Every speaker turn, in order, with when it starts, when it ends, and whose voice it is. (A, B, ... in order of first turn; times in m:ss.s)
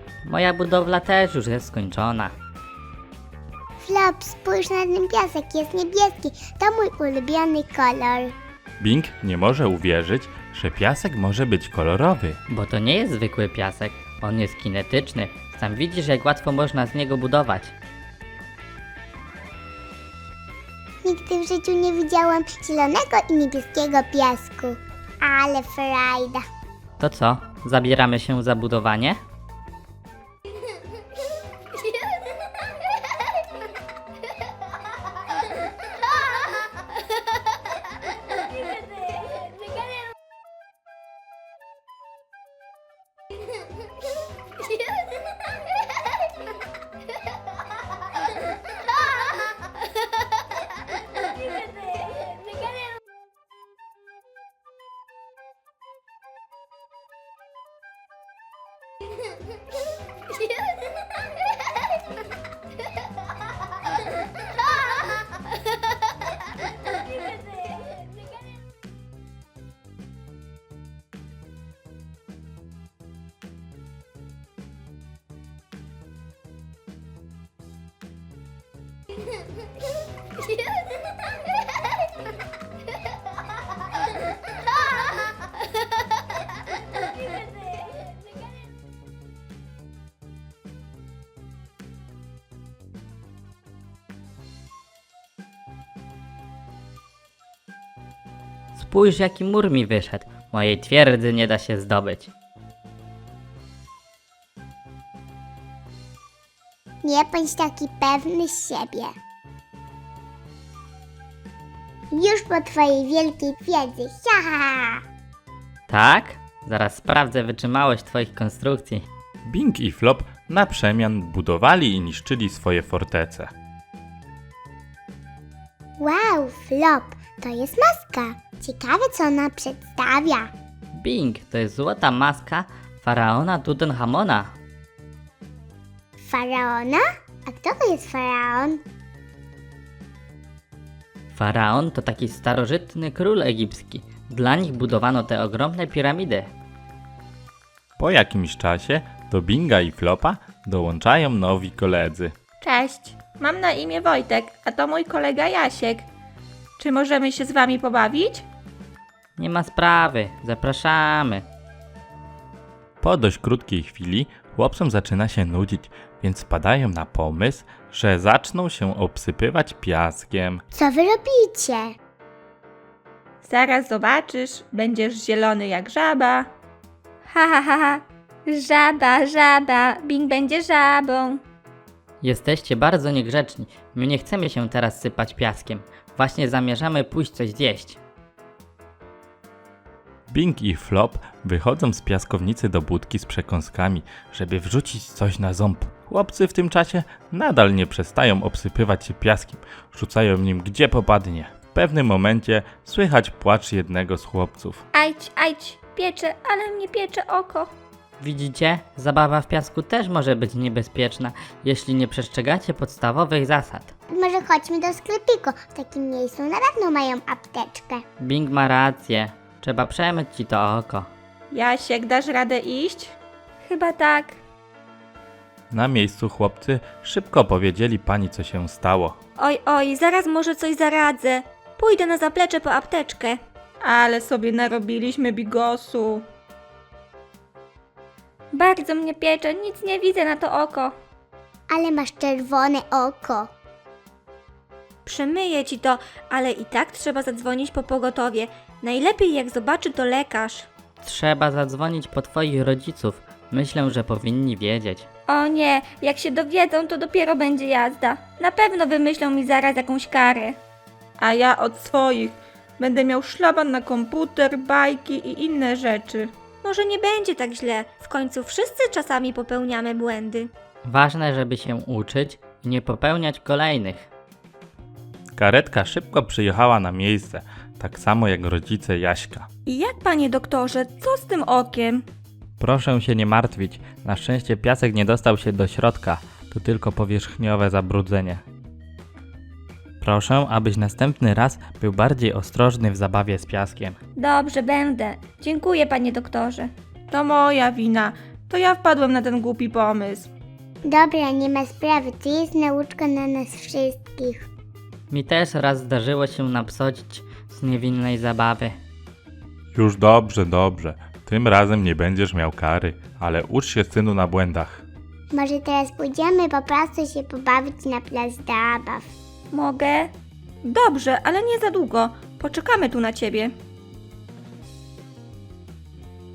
0:00.2-0:02.4 A
0:03.8-0:08.3 B
0:08.8-0:12.4 C
0:12.5-0:17.7 A
0:21.0-0:26.4 B
0:27.0-0:29.2 A
1:38.8-1:42.3 A
1:47.0-1:49.1 B
1:52.1-1:55.0 B
1:55.9-1:59.1 A
1:59.4-2:03.5 C
2:06.0-2:10.5 B
2:10.9-2:14.5 A
2:16.2-2:18.8 B
2:21.3-2:26.5 A
2:28.0-2:32.3 C
2:32.6-2:36.1 D
2:36.8-2:38.4 D
2:39.4-2:41.5 A
2:43.0-2:50.6 C
2:50.7-2:51.9 B
2:53.4-2:56.5 D
2:57.3-3:01.4 E
3:02.2-3:08.0 A
3:10.3-3:24.8 C
3:24.9-3:27.7 E
3:28.2-3:33.9 A
3:34.1-3:38.0 B
3:38.2-3:41.1 A
3:41.5-3:43.2 D
3:43.6-3:44.4 E
3:45.7-3:49.2 C
3:49.4-3:53.4 E
3:53.8-3:56.2 D
3:58.5-4:00.9 E
4:01.7-4:03.5 B
4:05.1-4:10.7 E
4:11.0-4:15.1 A
4:15.3-4:20.6 E
4:21.2-4:26.3 D
4:26.6-4:30.5 E
4:30.8-4:34.1 A
4:35.4-4:39.5 C
4:39.7-4:42.0 E
4:42.6-4:48.4 A
4:50.0-4:54.0 A
4:54.2-4:56.7 E
4:57.1-5:00.3 D
5:00.8-5:04.5 B
5:05.1-5:08.8 A
5:09.7-5:14.9 C
5:15.3-5:19.1 B
5:19.5-5:20.1 E
5:20.6-5:23.5 E